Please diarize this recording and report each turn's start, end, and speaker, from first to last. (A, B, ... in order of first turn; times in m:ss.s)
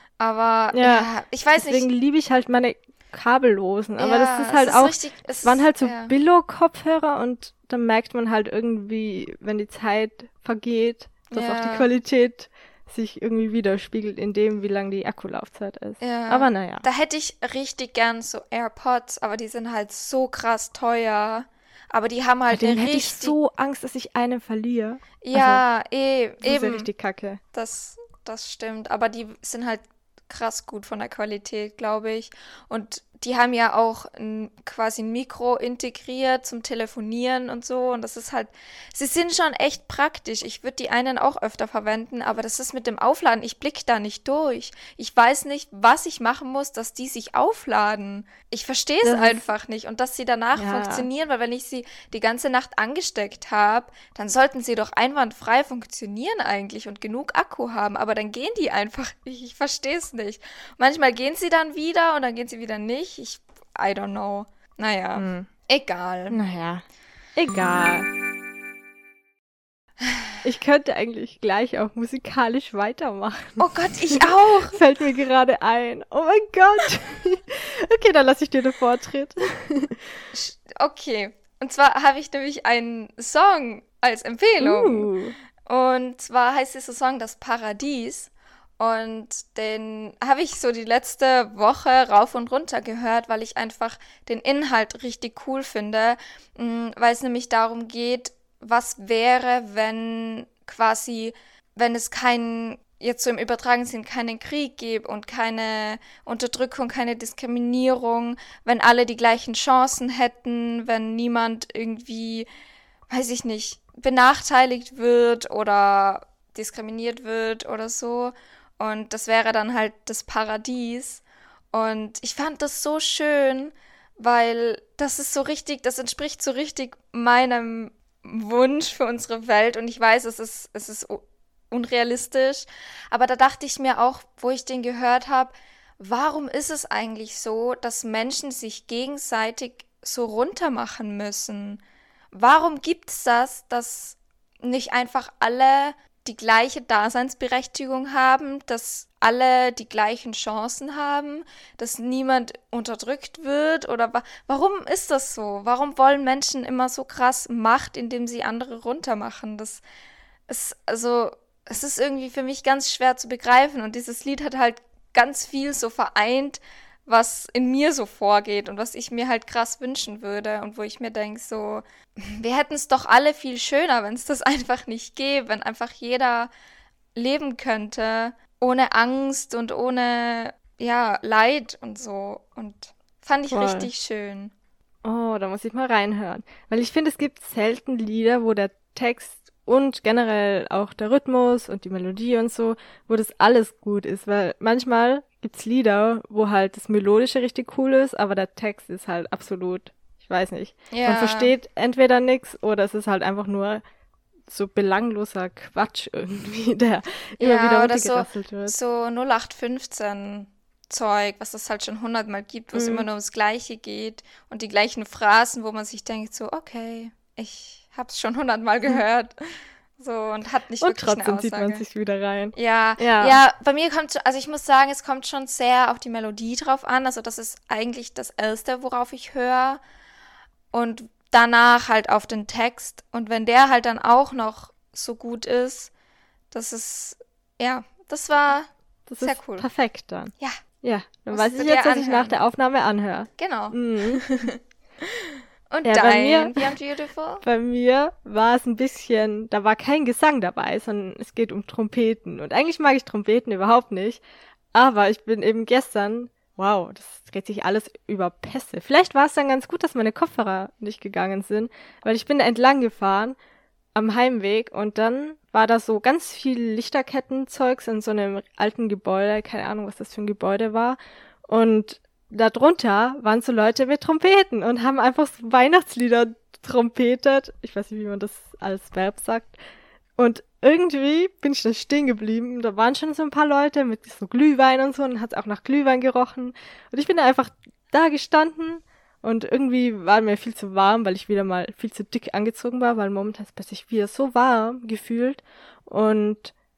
0:00.2-0:01.9 A
0:00.7-0:16.8 B
0:04.0-0:06.1 A
0:11.3-0:11.9 A
0:16.0-0:23.4 A
0:22.5-0:25.6 B
0:25.2-0:26.9 A
0:26.4-0:27.4 B
0:27.5-1:06.4 A
0:49.0-0:49.4 B
0:50.6-0:51.1 B
1:05.2-1:05.5 B
1:06.3-1:06.8 B
1:07.4-1:08.1 B
1:10.4-1:20.0 B
1:13.6-1:14.8 A
1:20.3-1:25.1 A
1:24.6-1:25.3 B
1:25.6-1:52.5 A
1:53.1-2:21.8 A
2:22.3-2:39.8 A
2:40.5-2:56.5 A
2:57.1-3:04.5 A
3:03.5-3:03.9 B
3:05.0-3:23.8 B
3:20.9-3:21.5 A
3:24.5-3:28.8 B
3:27.4-3:39.3 A
3:32.7-3:33.0 B
3:40.0-3:41.8 A
3:40.8-3:43.4 B
3:42.5-3:49.8 A
3:50.7-3:55.9 A
3:56.5-3:58.7 A
3:59.1-4:04.2 B
3:59.2-3:59.7 A
4:01.3-4:02.4 A
4:03.4-4:07.4 A
4:05.8-4:06.7 B
4:07.4-4:14.2 B
4:14.7-4:23.4 B
4:23.9-4:39.6 B
4:40.2-4:56.5 B